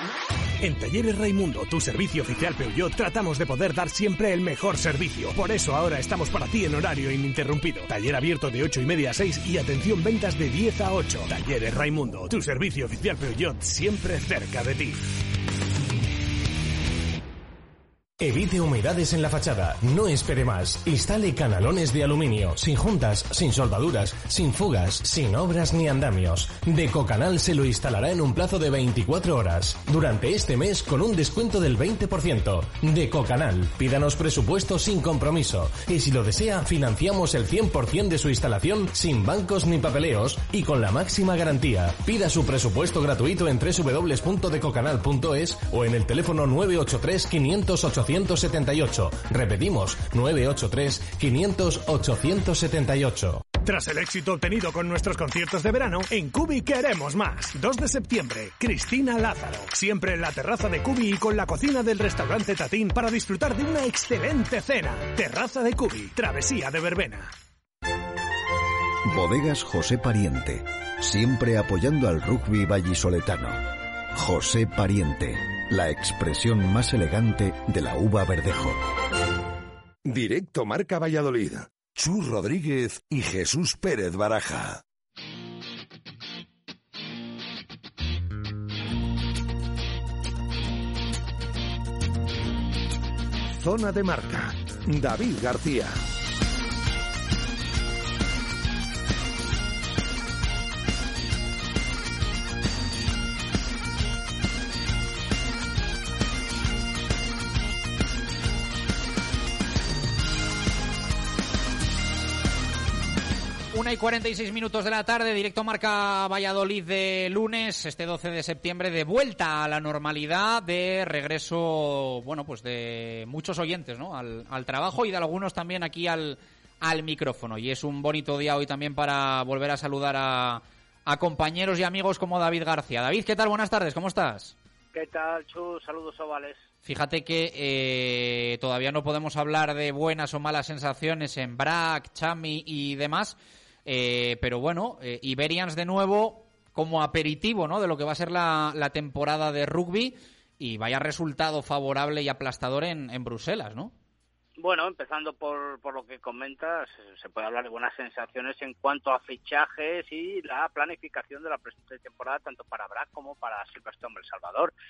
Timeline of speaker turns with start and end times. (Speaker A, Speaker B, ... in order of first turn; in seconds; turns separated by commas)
Speaker A: 0.6-15.1, Speaker B: 18.2-53.5, Speaker A: 53.7-67.3, Speaker C: 69.1-73.6, Speaker C: 74.2-78.8, Speaker D: 80.0-84.8, Speaker D: 93.5-96.0, Speaker E: 113.7-134.6, Speaker F: 134.9-136.6, Speaker E: 136.8-153.9, Speaker F: 154.6-164.7